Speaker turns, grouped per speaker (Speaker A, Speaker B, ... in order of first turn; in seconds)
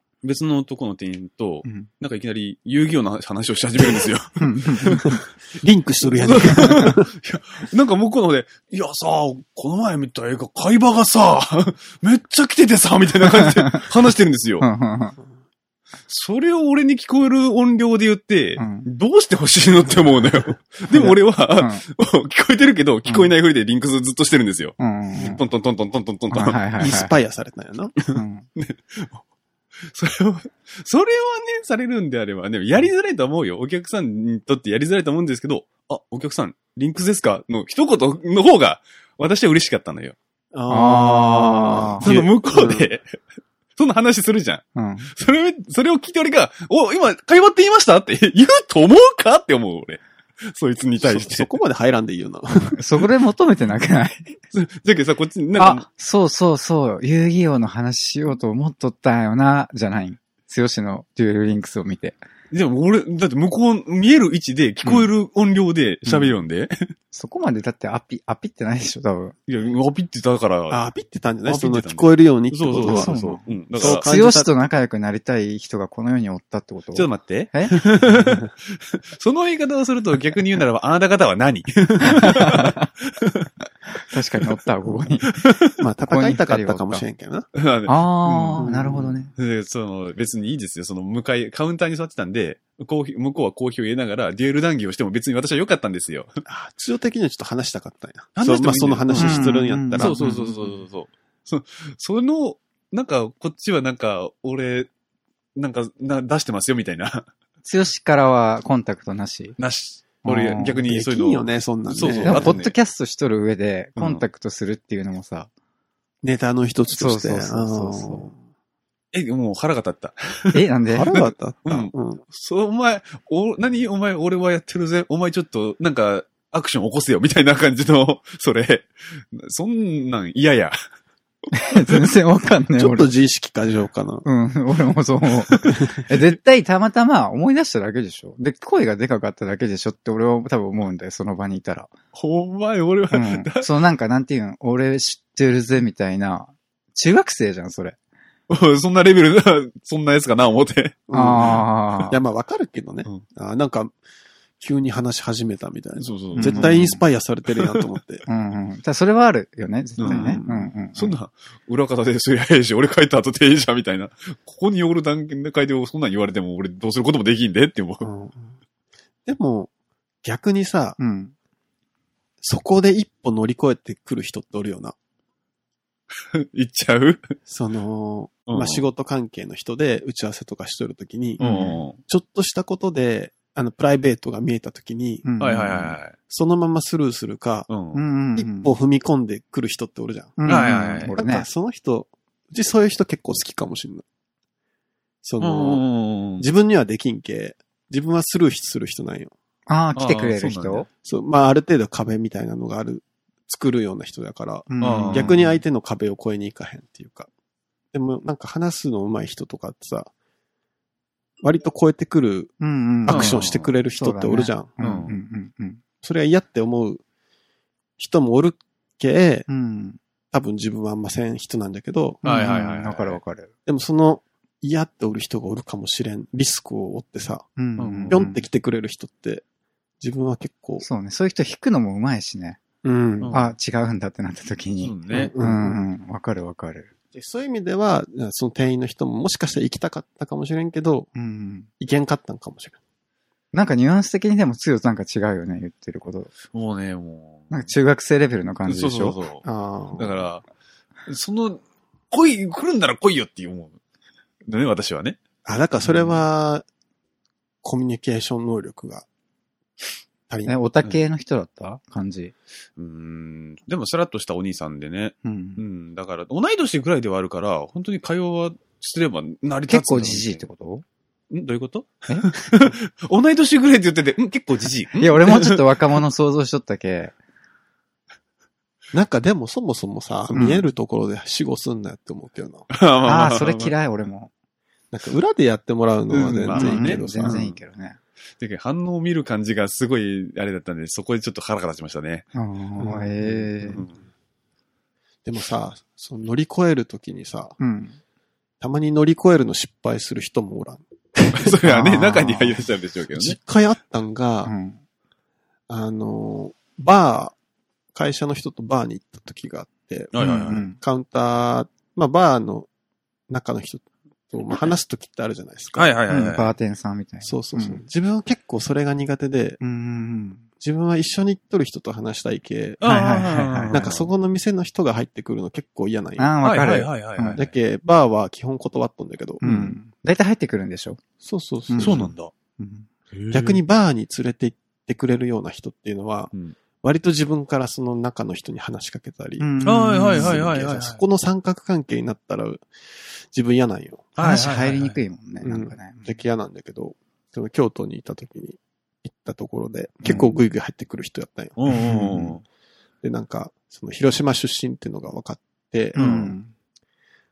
Speaker A: 0.2-5.2, 6.2-14.7, 16.1-26.6, 28.1-29.2, 29.8-40.1, 42.0-43.2, 43.8-51.5, 54.5-55.8, 62.5-66.9, 69.5-70.9, 71.5-74.0, 76.9-83.5, 85.2-85.7, 87.5-88.6, 89.4-96.3, 98.3-104.9, 105.5-107.3, 109.6-112.7, 114.0-114.2, 119.1-130.8, 135.5-135.8, 142.1-143.7, 148.5-151.0, 156.0-156.8, 160.0-168.1, 176.3-177.3, 178.5-178.8, 181.4-182.0, 185.4-186.2, 187.7-188.0, 190.4-191.1, 195.4-196.4, 199.9-200.9, 204.8-205.4, 213.1-213.7, 214.8-215.2, 222.2-223.2, 227.8-228.4, 233.2-233.5, 234.8-235.3, 246.5-247.7, 248.7-249.4, 249.9-250.4, 251.1-253.8, 254.4-255.2, 255.8-256.2, 262.8-270.5, 271.3-275.6, 282.7-283.7, 286.1-287.6, 288.4-292.3, 293.7-293.9, 301.3-303.4, 310.1-310.6, 315.7-316.5, 322.8-324.1, 326.4-327.5, 329.4-329.8, 331.8-332.3, 333.1-333.6, 339.6-341.0, 344.1-345.0, 351.6-352.4, 355.9-356.3
Speaker B: 4.4-5.0, 6.6-6.8, 13.4-13.8, 14.6-15.2, 18.6-18.9, 20.9-21.8, 23.1-23.3, 24.8-25.4, 26.3-27.1, 28.1-28.4, 40.7-42.0, 44.7-45.1, 52.6-54.4, 55.6-62.1, 67.1-69.3, 72.8-77.7, 82.0-82.9, 84.1-85.4, 86.1-87.0, 87.9-89.3, 99.1-100.7, 107.6-109.6, 110.2-110.8, 112.2-115.5, 116.9-118.3, 120.5-121.2, 131.5-133.1, 134.2-141.9, 143.1-148.0, 151.1-152.2, 156.3-157.0, 158.3-161.2, 171.0-171.3, 181.4-181.8, 185.2-186.0, 187.9-188.7, 190.4-191.5, 199.7-200.9, 204.7-205.6, 212.6-213.4, 213.9-215.8, 219.5-220.0, 222.2-223.5, 227.6-228.3, 230.8-232.6, 233.3-236.9, 241.1-241.7, 243.5-246.3, 247.5-249.2, 260.4-262.3, 265.2-265.6, 269.7-270.8, 272.1-272.3, 275.0-277.1, 283.0-284.3, 286.2-288.0, 292.3-293.8, 297.6-298.0, 301.6-302.6, 304.4-304.8, 310.2-310.8, 316.1-317.8, 319.6-320.4, 322.8-323.8, 326.2-327.4, 329.4-331.0, 331.7-332.1, 332.6-332.9, 339.4-340.4, 344.2-346.1, 350.0-350.3, 351.7-352.3, 355.9-356.5
Speaker C: 5.6-7.1, 26.8-27.9, 40.5-42.9, 51.0-52.8, 70.7-73.1, 73.7-74.6, 78.0-78.5, 85.8-87.5, 88.6-89.2, 96.5-100.5, 110.8-112.6, 116.2-118.3, 120.9-122.2, 132.8-134.2, 151.1-153.9, 154.6-158.3, 160.0-160.7, 168.0-168.5, 169.2-169.7, 170.2-171.0, 172.4-174.9, 177.5-185.2, 186.3-187.7, 188.3-194.0, 195.2-195.8, 196.4-199.3, 201.0-207.3, 207.9-210.1, 211.4-212.5, 213.0-214.7, 216.0-217.0, 218.0-219.5, 220.3-222.2, 223.7-227.5, 228.1-229.4, 230.0-230.8, 232.8-233.3, 235.1-235.8, 237.1-241.1, 241.8-242.8, 249.4-250.2, 255.4-256.6, 257.6-259.1, 260.3-260.5, 278.9-282.7, 284.9-287.4, 292.8-293.8, 295.2-297.6, 298.6-301.6, 303.1-304.5, 305.7-307.3, 307.9-312.7, 313.3-315.9, 317.2-319.6, 320.6-322.8, 323.7-326.3, 327.4-329.4, 331.2-332.1, 333.3-339.5, 340.1-344.1, 345.4-352.0, 353.0-356.0